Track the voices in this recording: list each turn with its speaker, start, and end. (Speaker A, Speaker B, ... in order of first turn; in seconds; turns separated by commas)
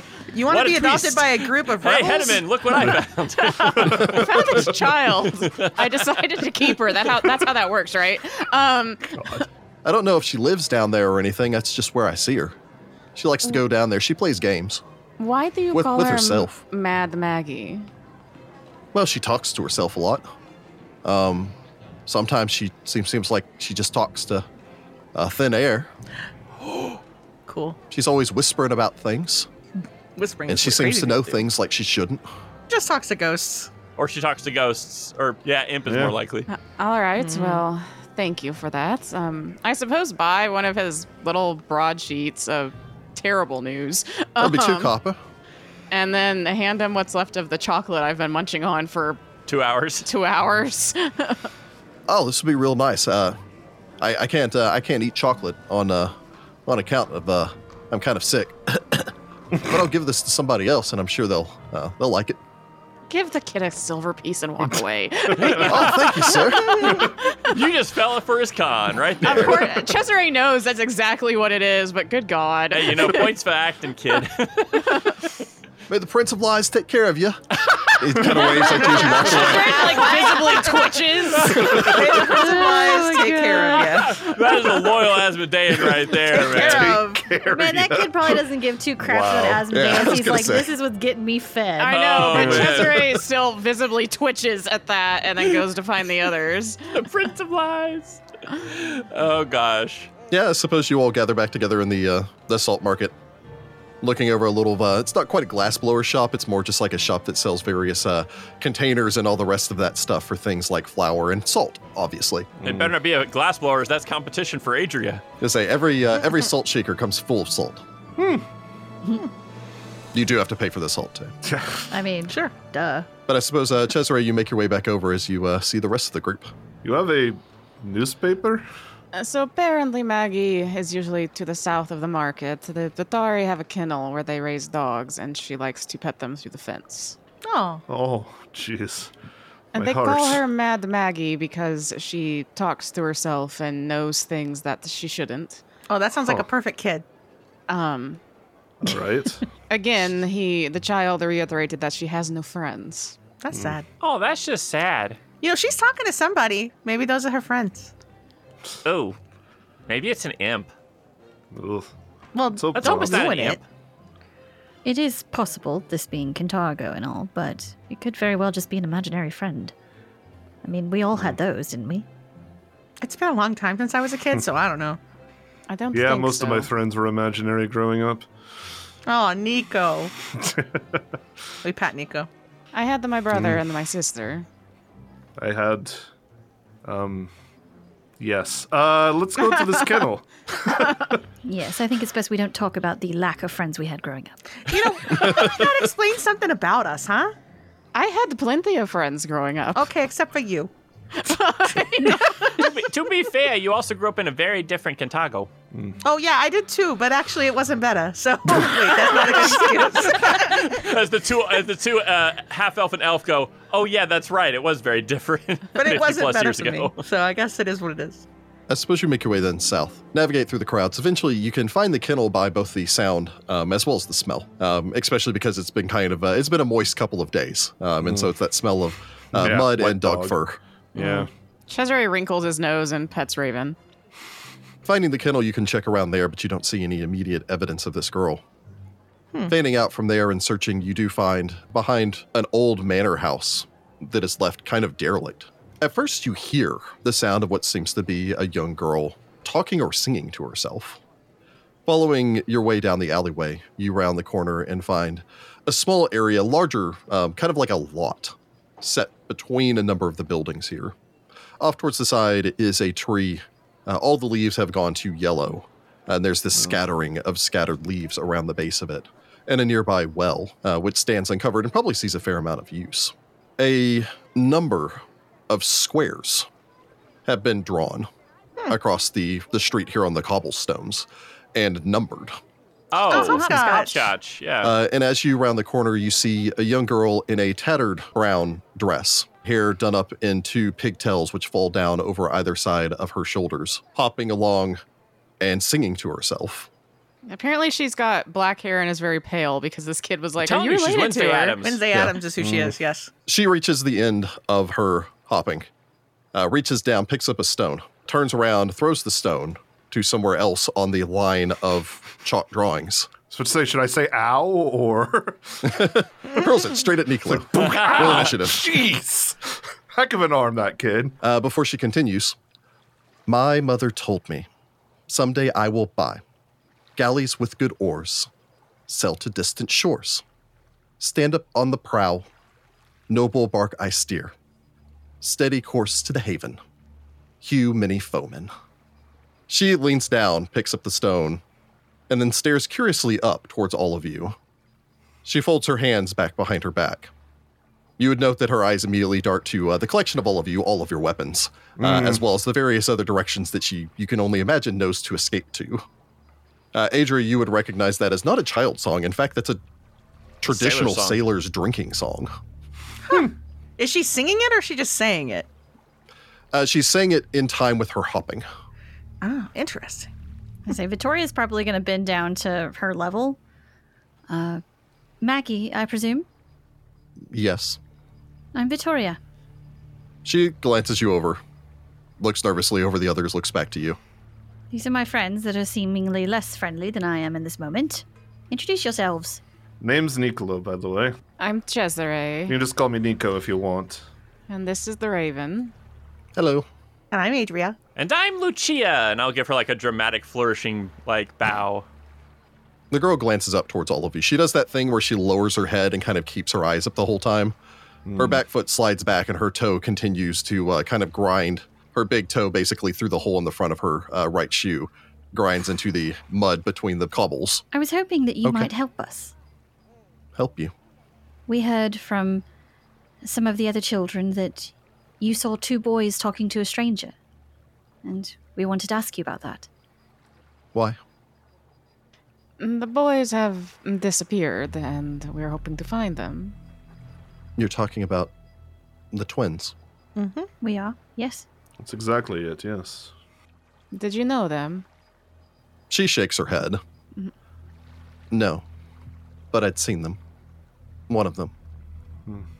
Speaker A: 0.3-2.6, Speaker B: 0.5-4.7, Speaker C: 2.8-9.4, Speaker B: 5.4-6.0, Speaker D: 9.8-12.6, Speaker D: 13.1-14.8, Speaker C: 15.2-17.9, Speaker D: 15.7-16.6, Speaker D: 18.9-20.2, Speaker D: 21.0-21.6, Speaker D: 22.1-24.4, Speaker D: 25.1-25.9, Speaker A: 26.6-27.8, Speaker D: 27.9-29.5, Speaker A: 30.1-31.4, Speaker D: 30.5-32.2, Speaker A: 32.7-33.7, Speaker B: 34.0-36.5, Speaker E: 35.9-36.2, Speaker C: 36.5-44.9, Speaker A: 37.2-37.6, Speaker D: 44.4-45.2, Speaker C: 45.9-49.3, Speaker B: 49.5-50.1, Speaker C: 50.0-51.5, Speaker D: 52.1-53.4, Speaker D: 54.0-62.4, Speaker C: 63.1-67.5, Speaker B: 65.4-66.9, Speaker D: 65.6-67.0, Speaker B: 67.4-69.8, Speaker C: 69.2-73.3, Speaker B: 72.7-75.1, Speaker D: 75.9-77.4, Speaker D: 77.9-79.9, Speaker C: 78.2-81.9, Speaker B: 78.4-82.2, Speaker A: 81.6-84.2, Speaker F: 82.0-84.1, Speaker B: 83.5-87.0, Speaker E: 85.8-88.4, Speaker A: 86.2-87.3, Speaker F: 87.4-92.0, Speaker E: 89.0-89.8, Speaker D: 89.7-90.7, Speaker C: 91.8-97.0, Speaker B: 91.9-93.2, Speaker E: 92.3-92.8, Speaker B: 96.9-100.1, Speaker D: 100.3-103.1, Speaker D: 104.0-112.5, Speaker E: 112.6-112.9, Speaker B: 112.6-115.2, Speaker D: 115.4-117.8, Speaker E: 118.2-118.4, Speaker D: 120.1-121.3, Speaker E: 121.4-121.9, Speaker F: 121.9-123.1, Speaker D: 123.3-126.5, Speaker E: 126.8-128.7, Speaker C: 129.1-137.2, Speaker A: 137.4-137.8, Speaker E: 137.9-139.1, Speaker C: 139.7-145.6, Speaker E: 139.7-140.4, Speaker A: 145.9-147.0, Speaker C: 147.7-148.2, Speaker E: 148.8-149.5, Speaker C: 149.7-153.2, Speaker A: 153.4-153.8, Speaker B: 154.0-155.2, Speaker A: 155.4-157.9, Speaker B: 158.8-159.2, Speaker B: 159.9-160.7, Speaker E: 161.5-161.9, Speaker A: 162.3-163.6, Speaker E: 162.5-163.3, Speaker B: 162.7-163.6, Speaker F: 164.8-169.7, Speaker F: 170.6-172.1, Speaker A: 173.0-175.0, Speaker C: 175.7-176.7, Speaker E: 175.9-178.3, Speaker A: 179.1-180.1, Speaker E: 180.3-181.0, Speaker A: 181.6-182.3, Speaker C: 182.7-184.4, Speaker E: 183.3-183.6, Speaker E: 185.4-186.1, Speaker E: 186.8-187.3, Speaker E: 188.2-191.2, Speaker C: 189.6-190.0, Speaker F: 191.4-194.7, Speaker A: 194.7-197.3, Speaker C: 197.9-199.9, Speaker A: 199.7-200.7, Speaker C: 201.1-202.7, Speaker B: 202.4-205.5, Speaker E: 205.7-206.0, Speaker A: 206.0-210.8, Speaker B: 209.1-217.0, Speaker A: 215.8-218.2, Speaker D: 218.7-230.6, Speaker E: 228.0-228.3, Speaker E: 229.3-230.4, Speaker E: 230.9-231.3, Speaker C: 230.9-233.8, Speaker D: 234.8-238.4, Speaker D: 239.5-251.0, Speaker D: 251.8-260.9, Speaker D: 261.6-276.5, Speaker D: 277.2-278.1, Speaker D: 278.7-282.4, Speaker B: 282.9-284.7, Speaker A: 283.1-284.1, Speaker F: 283.1-283.9, Speaker D: 284.6-294.8, Speaker D: 295.4-296.7, Speaker C: 297.2-301.6, Speaker B: 300.4-302.0, Speaker A: 301.6-303.1, Speaker E: 302.4-302.7, Speaker D: 303.3-305.7, Speaker D: 306.3-313.1, Speaker E: 313.2-315.8, Speaker D: 315.6-318.8, Speaker E: 317.3-321.1, Speaker B: 317.7-318.2, Speaker D: 321.2-322.4, Speaker D: 323.3-324.5, Speaker D: 325.1-326.2, Speaker D: 326.9-328.3, Speaker D: 328.9-330.2, Speaker D: 331.0-332.3, Speaker D: 333.1-334.3, Speaker D: 335.2-336.6, Speaker D: 337.4-338.5, Speaker D: 339.5-341.4, Speaker D: 342.1-344.4, Speaker D: 345.2-347.1, Speaker D: 348.0-355.8, Speaker E: 351.8-352.2, Speaker D: 356.7-359.6, Speaker D: 360.4-362.3, Speaker B: 360.4-361.2, Speaker A: 363.1-365.5, Speaker D: 366.5-368.4, Speaker A: 369.2-370.1, Speaker F: 370.7-373.4, Speaker F: 374.3-374.6, Speaker F: 375.2-376.2, Speaker D: 377.3-377.8, Speaker F: 378.5-379.2, Speaker D: 380.2-381.4, Speaker D: 382.2-384.0, Speaker F: 384.7-389.4, Speaker E: 389.8-391.2, Speaker C: 391.4-392.6, Speaker E: 392.5-394.0, Speaker C: 394.5-395.7, Speaker D: 396.4-396.7, Speaker A: 397.1-397.8, Speaker B: 397.9-401.9, Speaker D: 402.9-407.5, Speaker E: 408.1-408.4, Speaker D: 408.2-417.6, Speaker F: 417.7-419.3, Speaker D: 418.4-418.7, Speaker D: 420.3-420.7, Speaker F: 421.5-422.4, Speaker F: 423.2-427.1, Speaker F: 428.0-429.7, Speaker D: 430.7-431.0, Speaker C: 432.6-436.6, Speaker D: 437.6-438.3, Speaker D: 439.1-439.7, Speaker A: 440.1-440.5, Speaker F: 440.6-441.4, Speaker E: 441.8-443.1, Speaker C: 443.9-444.8, Speaker D: 445.9-446.8, Speaker D: 448.3-448.6, Speaker D: 449.5-450.2, Speaker D: 451.1-451.5